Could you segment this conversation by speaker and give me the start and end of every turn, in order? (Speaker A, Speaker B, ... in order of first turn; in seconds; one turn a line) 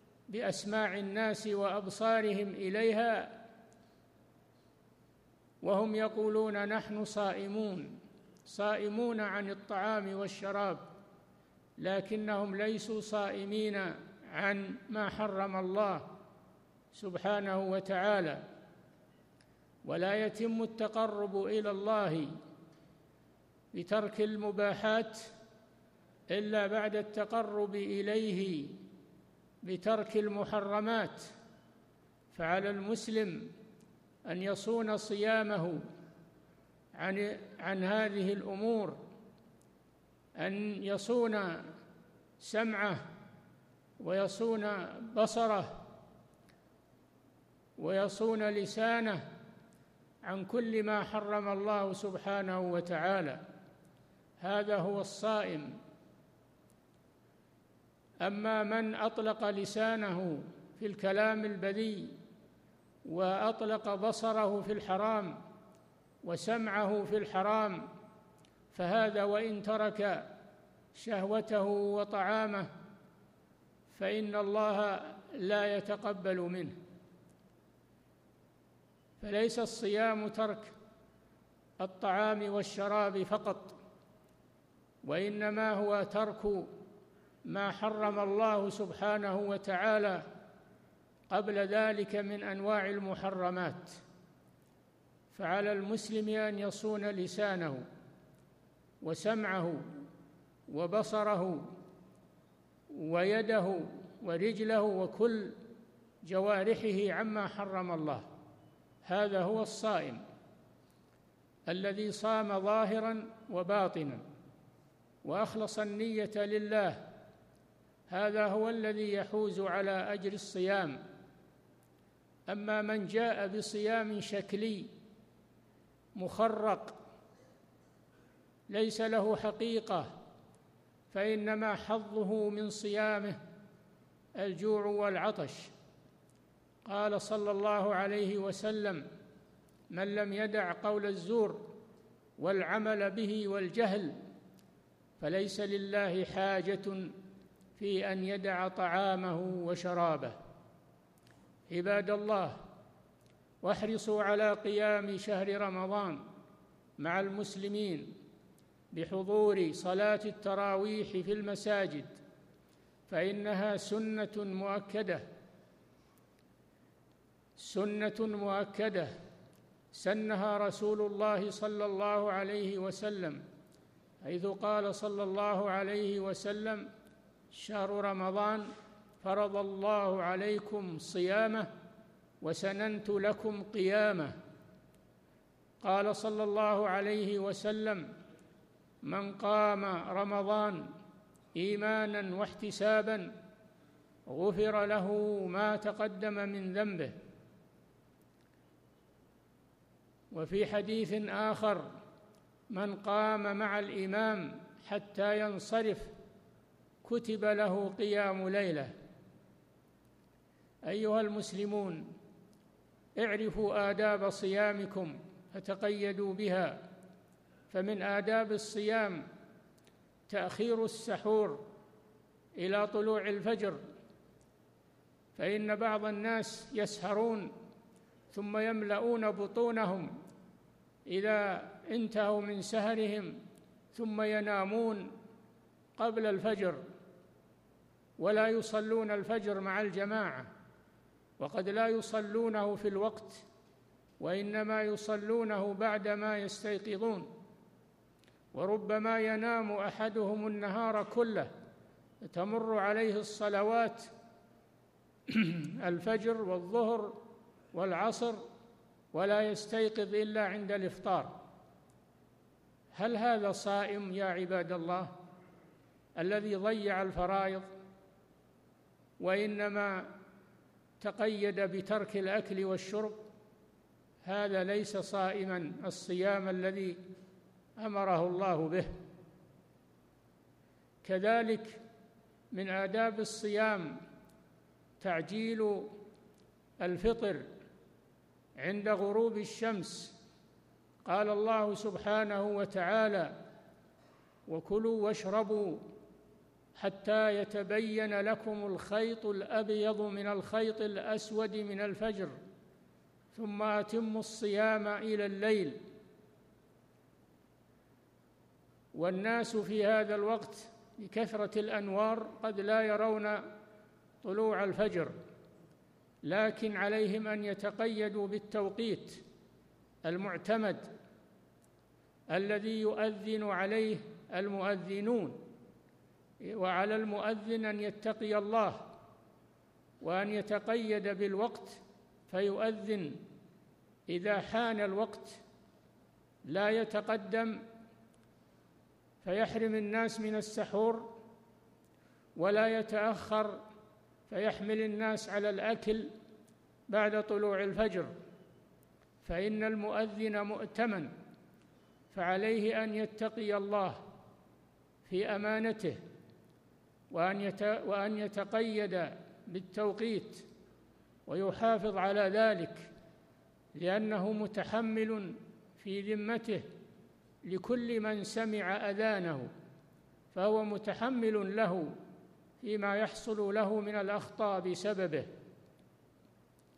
Speaker A: 0.3-3.3
Speaker A: 5.6-10.8
Speaker A: 11.8-16.1
Speaker A: 16.9-18.4
Speaker A: 19.8-22.3
Speaker A: 23.7-25.3
Speaker A: 26.3-28.8
Speaker A: 29.6-31.3
Speaker A: 32.3-33.5
Speaker A: 34.2-35.8
Speaker A: 37.0-39.0
Speaker A: 40.4-41.6
Speaker A: 42.4-43.0
Speaker A: 44.0-45.8
Speaker A: 47.8-49.2
Speaker A: 50.2-53.4
Speaker A: 54.4-55.7
Speaker A: 58.2-62.1
Speaker A: 63.0-65.4
Speaker A: 66.2-67.8
Speaker A: 68.7-70.3
Speaker A: 70.9-72.7
Speaker A: 73.9-76.8
Speaker A: 79.2-80.7
Speaker A: 81.8-83.8
Speaker A: 85.0-86.7
Speaker A: 87.5-90.2
Speaker A: 91.3-94.0
Speaker A: 95.3-97.8
Speaker A: 99.0-99.8
Speaker A: 100.7-101.7
Speaker A: 102.9-105.6
Speaker A: 106.2-108.2
Speaker A: 109.0-110.2
Speaker A: 111.7-114.2
Speaker A: 115.2-117.0
Speaker A: 118.1-121.0
Speaker A: 122.5-124.9
Speaker A: 126.2-127.0
Speaker A: 128.7-130.2
Speaker A: 131.1-133.4
Speaker A: 134.4-135.7
Speaker A: 136.8-139.0
Speaker A: 139.9-141.7
Speaker A: 142.4-144.2
Speaker A: 145.2-147.1
Speaker A: 147.8-150.3
Speaker A: 151.7-152.6
Speaker A: 153.6-156.2
Speaker A: 157.0-158.1
Speaker A: 158.9-162.2
Speaker A: 163.1-165.2
Speaker A: 167.6-169.1
Speaker A: 169.9-173.4
Speaker A: 174.2-176.8
Speaker A: 177.5-178.7
Speaker A: 179.2-181.7
Speaker A: 182.4-184.3
Speaker A: 185.8-188.1
Speaker A: 189.0-190.8
Speaker A: 191.6-193.3
Speaker A: 194.3-197.2
Speaker A: 200.3-201.9
Speaker A: 202.7-206.1
Speaker A: 207.0-208.9
Speaker A: 210.8-212.1
Speaker A: 213.2-216.8
Speaker A: 217.7-219.2
Speaker A: 220.3-221.7
Speaker A: 222.6-223.8
Speaker A: 225.3-227.5
Speaker A: 228.3-230.1
Speaker A: 231.1-233.4
Speaker A: 233.9-235.1
Speaker A: 236.0-236.8
Speaker A: 238.2-240.5
Speaker A: 241.4-243.4
Speaker A: 244.2-247.3
Speaker A: 248.5-251.5
Speaker A: 252.2-254.1
Speaker A: 255.3-257.2
Speaker A: 257.7-258.4
Speaker A: 259.1-261.4
Speaker A: 262.9-265.1
Speaker A: 266.2-267.7
Speaker A: 269.2-270.1
Speaker A: 271.0-273.2
Speaker A: 274.2-277.0
Speaker A: 277.8-278.9
Speaker A: 281.0-281.8
Speaker A: 282.5-284.0
Speaker A: 285.0-285.9
Speaker A: 286.8-287.4
Speaker A: 288.6-290.2
Speaker A: 291.1-293.3
Speaker A: 294.5-295.8
Speaker A: 296.8-302.3
Speaker A: 303.3-305.8
Speaker A: 308.9-313.4
Speaker A: 314.2-315.1
Speaker A: 316.2-319.2
Speaker A: 320.1-320.9
Speaker A: 322.3-325.4
Speaker A: 326.4-328.9
Speaker A: 330.0-333.2
Speaker A: 334.1-335.4
Speaker A: 336.5-337.6
Speaker A: 339.2-341.2
Speaker A: 342.4-343.6
Speaker A: 344.3-346.1
Speaker A: 346.9-348.1
Speaker A: 349.2-351.1
Speaker A: 352.1-354.0
Speaker A: 355.1-356.0
Speaker A: 357.1-360.4
Speaker A: 361.3-362.9
Speaker A: 363.7-366.6
Speaker A: 367.4-369.5
Speaker A: 370.3-371.9
Speaker A: 372.6-375.3